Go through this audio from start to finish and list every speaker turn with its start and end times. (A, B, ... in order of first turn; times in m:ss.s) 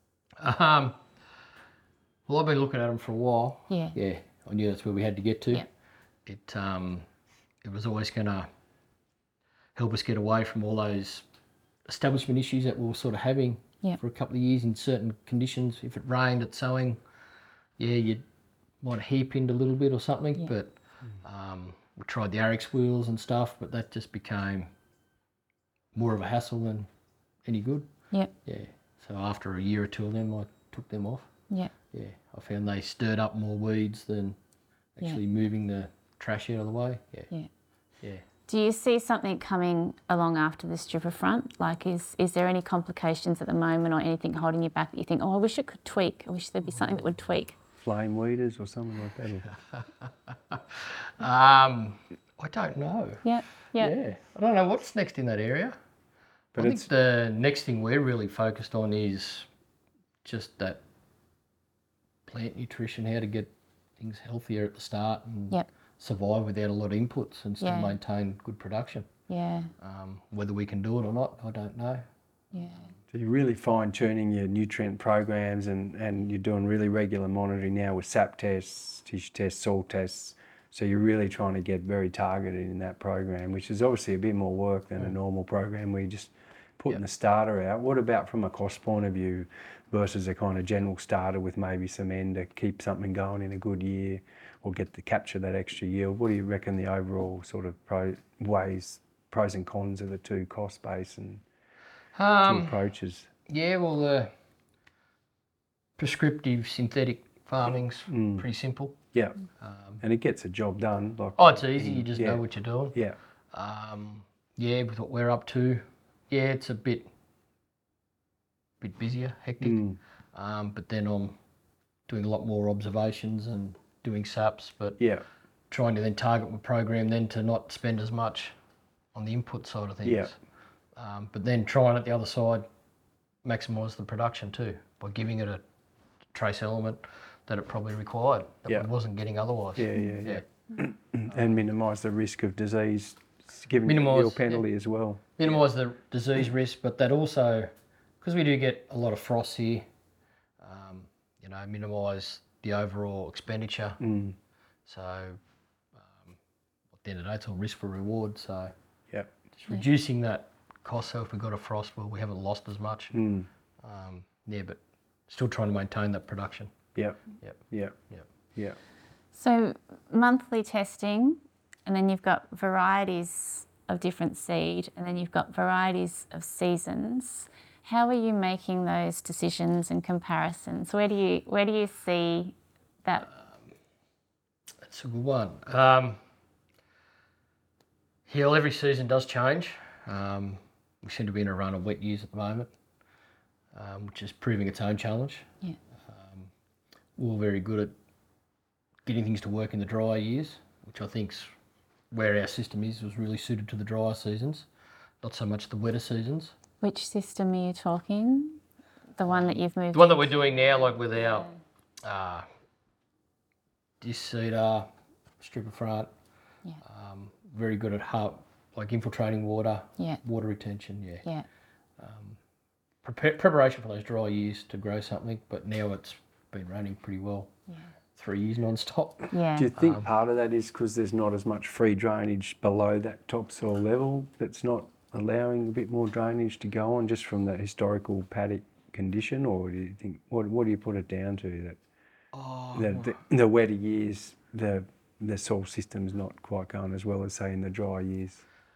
0:00.4-0:01.0 A
0:02.3-0:05.7 A
0:03.7-0:04.0 B
0:06.3-0:07.1 A
0:07.6-0:08.5 A
0:09.8-0:11.2 A
0:11.9-0:17.0 A
0:17.8-0:18.2 A
0:18.8-0:24.7 A
0:26.0-0:26.9 A
0:27.4-0:27.9 A
0:28.4-0:31.3 A
0:31.9-0:34.4 A
0:35.0-0:37.3 A
0:38.5-0:47.6 B
0:47.8-0:49.5 C
0:49.8-0:55.8 A
0:53.2-0:53.9 B
0:56.5-0:59.5 A
0:56.6-0:56.9 C
1:00.2-1:00.8 A
1:02.3-1:09.1 A
1:07.6-1:08.0 B
1:09.3-1:09.7 B
1:09.8-1:12.0 A
1:12.5-1:12.9 B
1:13.1-1:41.4 C
1:42.2-1:42.8 A
1:42.4-1:43.3 C
1:43.5-1:44.3 A
1:46.0-1:49.0 A
1:48.1-1:48.5 C
1:49.1-1:49.4 C
1:49.6-1:50.0 A
1:50.0-1:52.4 C
1:51.4-1:53.0 A
1:53.5-1:57.1 A
1:58.8-1:59.8 A
1:59.6-2:00.0 C
2:00.3-2:01.4 A
2:02.1-2:05.0 A
2:05.0-2:05.2 C
2:05.7-2:08.5 A
2:09.1-2:10.4 A
2:10.0-2:10.3 C
2:11.0-2:12.7 A
2:13.4-2:15.6 A
2:16.3-2:20.4 A
2:19.8-2:25.2 C
2:23.9-2:24.6 A
2:25.4-2:29.8 A
2:30.6-2:34.0 A
2:34.0-2:34.4 C
2:34.9-2:35.4 A
2:36.1-2:36.3 A
2:37.0-2:38.7 A
2:39.5-2:43.1 A
2:43.1-2:43.5 C
2:43.8-2:46.7 A
2:47.7-2:48.0 C
2:49.3-3:02.5 B
3:04.8-3:06.2 A
3:08.3-3:12.7 A
3:13.7-3:15.5 A
3:16.1-3:16.5 A
3:17.2-3:17.9 A
3:19.1-3:21.5 A
3:22.1-3:24.7 A
3:25.2-3:26.5 A
3:26.8-3:28.6 B
3:29.2-3:31.3 B
3:29.3-3:31.5 A
3:32.0-3:32.5 A
3:34.0-3:34.9 A
3:35.4-3:36.1 A
3:36.8-3:41.2 A
3:42.0-3:42.4 A
3:43.0-3:47.5 A
3:48.2-3:50.0 A
3:49.3-3:49.7 B
3:49.6-4:01.8 C
4:02.3-4:03.2 A
4:02.8-4:08.4 C